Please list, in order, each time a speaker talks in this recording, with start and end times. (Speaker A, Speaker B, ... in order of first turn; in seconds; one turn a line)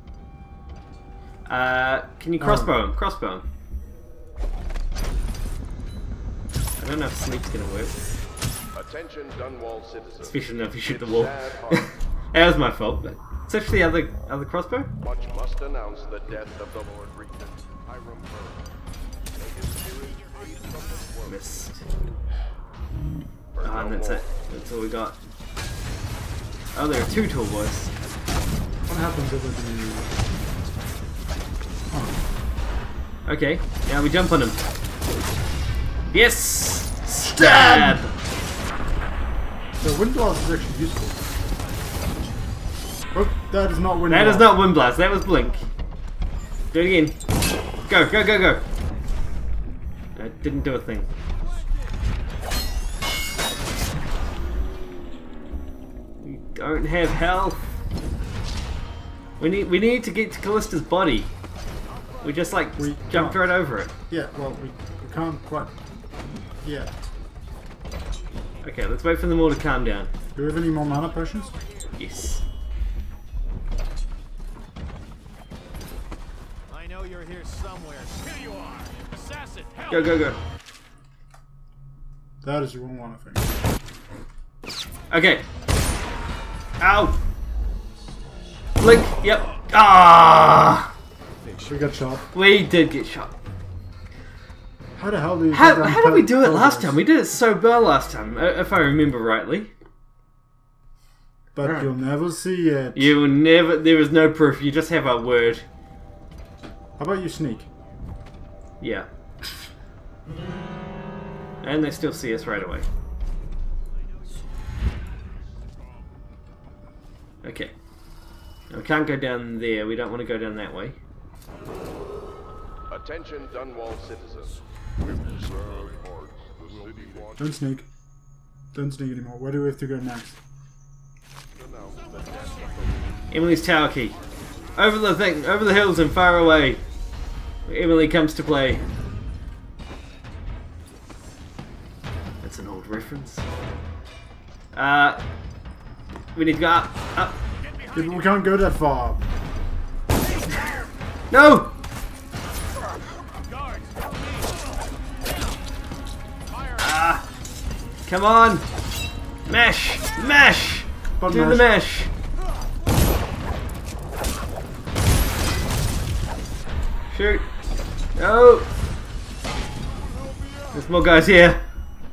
Speaker A: 1.5-3.5
Speaker B: 2.4-2.7
Speaker A: 6.8-8.0
Speaker C: 8.7-11.9
Speaker A: 10.2-14.9
Speaker C: 15.0-18.7
Speaker C: 19.4-21.5
Speaker D: 20.1-20.5
Speaker A: 21.2-21.8
Speaker C: 23.5-24.3
Speaker A: 23.6-25.2
Speaker A: 26.7-27.9
Speaker B: 28.9-30.1
Speaker B: 31.9-32.1
Speaker A: 33.2-34.6
Speaker A: 36.1-38.1
Speaker B: 37.2-38.0
Speaker B: 39.8-41.2
Speaker B: 43.1-44.6
Speaker A: 44.1-45.7
Speaker A: 46.7-47.1
Speaker A: 47.9-48.6
Speaker A: 50.1-51.1
Speaker A: 56.2-57.7
Speaker A: 59.4-61.3
Speaker A: 62.2-63.9
Speaker B: 62.8-63.5
Speaker B: 64.1-65.7
Speaker B: 66.6-66.9
Speaker A: 68.6-70.1
Speaker B: 70.3-71.5
Speaker A: 72.0-72.4
Speaker D: 76.7-80.3
Speaker A: 79.9-80.4
Speaker B: 82.4-83.5
Speaker A: 85.1-85.4
Speaker A: 86.8-87.2
Speaker A: 88.8-90.9
Speaker B: 91.7-92.2
Speaker A: 92.3-93.3
Speaker B: 95.0-97.0
Speaker A: 95.5-99.7
Speaker B: 101.5-103.1
Speaker A: 101.6-101.9
Speaker A: 102.9-105.6
Speaker B: 107.0-107.7
Speaker A: 108.8-109.1
Speaker A: 111.6-112.9
Speaker A: 117.4-117.7
Speaker A: 118.7-121.0
Speaker C: 122.9-127.5
Speaker B: 127.4-127.9
Speaker B: 128.7-130.4
Speaker C: 131.6-133.2
Speaker A: 133.3-134.2
Speaker A: 134.7-136.8
Speaker A: 137.7-138.8
Speaker A: 142.4-143.4
Speaker A: 144.7-145.2
Speaker A: 146.3-147.4
Speaker D: 147.7-148.4
Speaker B: 147.9-149.2
Speaker A: 151.3-151.7
Speaker D: 153.5-154.6
Speaker D: 156.5-157.2
Speaker A: 156.8-157.2
Speaker A: 158.1-158.7
Speaker A: 159.5-162.1
Speaker B: 161.2-161.7
Speaker A: 167.1-167.5
Speaker A: 168.1-168.7
Speaker A: 170.7-171.6